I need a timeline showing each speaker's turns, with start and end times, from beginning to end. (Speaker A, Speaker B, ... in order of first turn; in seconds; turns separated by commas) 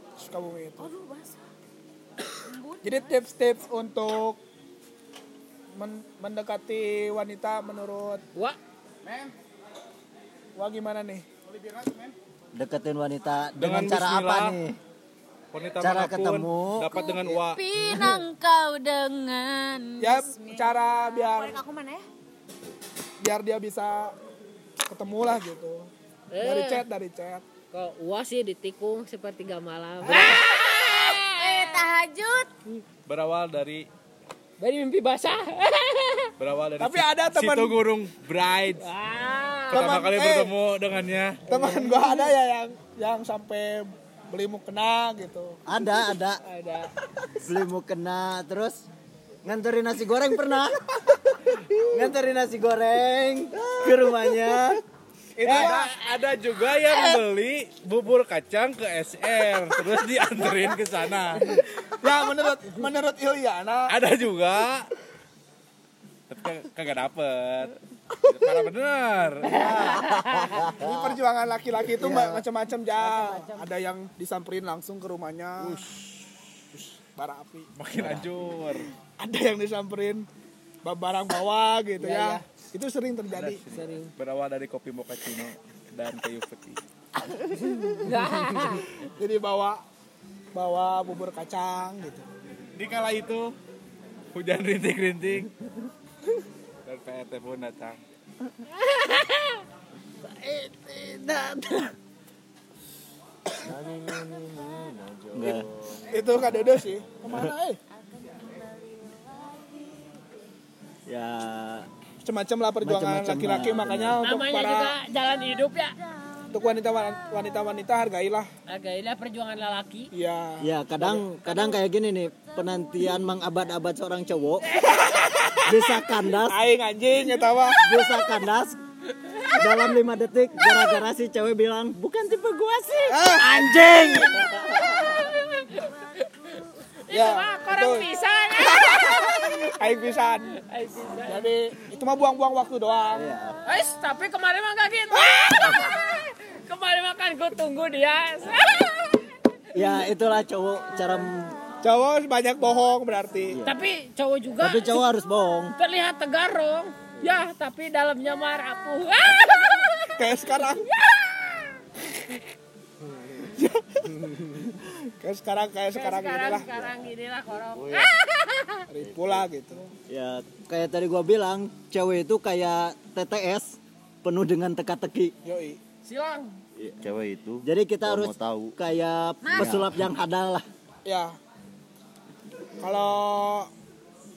Speaker A: 0.2-0.9, Speaker B: 0.8-1.4, Speaker B: 2.4-3.2, Speaker A: 2.8-4.4, Speaker A: 5.7-8.2, Speaker A: 10.6-11.2, Speaker C: 12.5-14.8, Speaker D: 13.6-14.6, Speaker D: 15.5-17.6, Speaker C: 15.8-16.9, Speaker B: 16.9-22.0, Speaker C: 17.9-18.2, Speaker A: 20.0-21.6, Speaker A: 23.2-24.1, Speaker A: 24.9-27.4, Speaker E: 26.3-26.8, Speaker E: 27.7-31.9, Speaker B: 30.1-32.5, Speaker D: 33.1-33.8, Speaker E: 34.6-36.3, Speaker D: 36.4-38.9, Speaker A: 36.8-37.8, Speaker E: 38.8-40.0, Speaker D: 39.7-41.4, Speaker A: 39.7-40.5, Speaker A: 41.5-45.6, Speaker E: 41.5-42.2, Speaker C: 45.6-46.4, Speaker E: 46.4-46.9, Speaker C: 47.4-48.8, Speaker C: 49.4-50.9, Speaker C: 51.9-54.8, Speaker A: 55.4-55.9, Speaker C: 55.4-55.7, Speaker D: 55.4-61.6, Speaker A: 61.9-63.9, Speaker D: 63.9-64.9, Speaker D: 66.3-70.0, Speaker E: 69.4-70.7, Speaker C: 69.6-71.0, Speaker A: 70.7-76.0, Speaker C: 72.0-72.5, Speaker E: 73.0-73.7, Speaker D: 75.6-75.9, Speaker A: 76.7-77.7, Speaker D: 77.7-78.9, Speaker A: 79.2-80.3, Speaker A: 80.8-83.6, Speaker E: 82.0-82.4, Speaker D: 83.3-86.8, Speaker E: 83.7-84.1, Speaker E: 88.0-88.8, Speaker A: 89.0-89.8, Speaker A: 90.5-92.3, Speaker D: 92.7-93.5, Speaker D: 94.3-95.5, Speaker D: 96.8-98.0, Speaker E: 98.7-99.6, Speaker E: 100.2-101.9, Speaker F: 103.6-106.0, Speaker C: 105.3-105.7, Speaker A: 106.1-107.8, Speaker B: 107.9-110.2, Speaker C: 111.1-111.9, Speaker A: 112.2-115.0, Speaker C: 112.8-114.2, Speaker E: 114.2-116.0, Speaker B: 115.1-117.8, Speaker A: 116.5-118.5, Speaker E: 118.7-120.1, Speaker A: 120.1-121.2, Speaker C: 120.6-124.8, Speaker B: 121.4-123.3, Speaker E: 124.7-125.2, Speaker A: 124.8-127.8, Speaker C: 125.7-126.7, Speaker E: 127.6-128.1, Speaker C: 127.8-128.8, Speaker E: 129.1-130.0, Speaker C: 129.6-135.3, Speaker E: 130.6-131.0, Speaker A: 133.1-134.2, Speaker E: 134.3-139.7, Speaker A: 137.1-140.5, Speaker E: 140.6-141.4, Speaker A: 141.2-143.3, Speaker C: 143.1-143.6, Speaker E: 143.7-149.3, Speaker C: 149.7-151.5, Speaker A: 151.8-153.6, Speaker E: 153.6-155.0, Speaker C: 154.6-155.7, Speaker E: 155.8-162.4, Speaker A: 160.2-160.9, Speaker A: 163.5-166.7, Speaker E: 165.9-168.9, Speaker F: 167.7-168.1, Speaker A: 168.9-169.9, Speaker F: 169.0-169.4, Speaker C: 170.1-175.3, Speaker A: 175.4-175.8, Speaker E: 176.0-176.6, Speaker F: 177.0-178.8, Speaker C: 177.6-180.7, Speaker B: 179.4-179.7, Speaker F: 179.5-180.0, Speaker A: 181.0-181.4, Speaker A: 182.8-183.7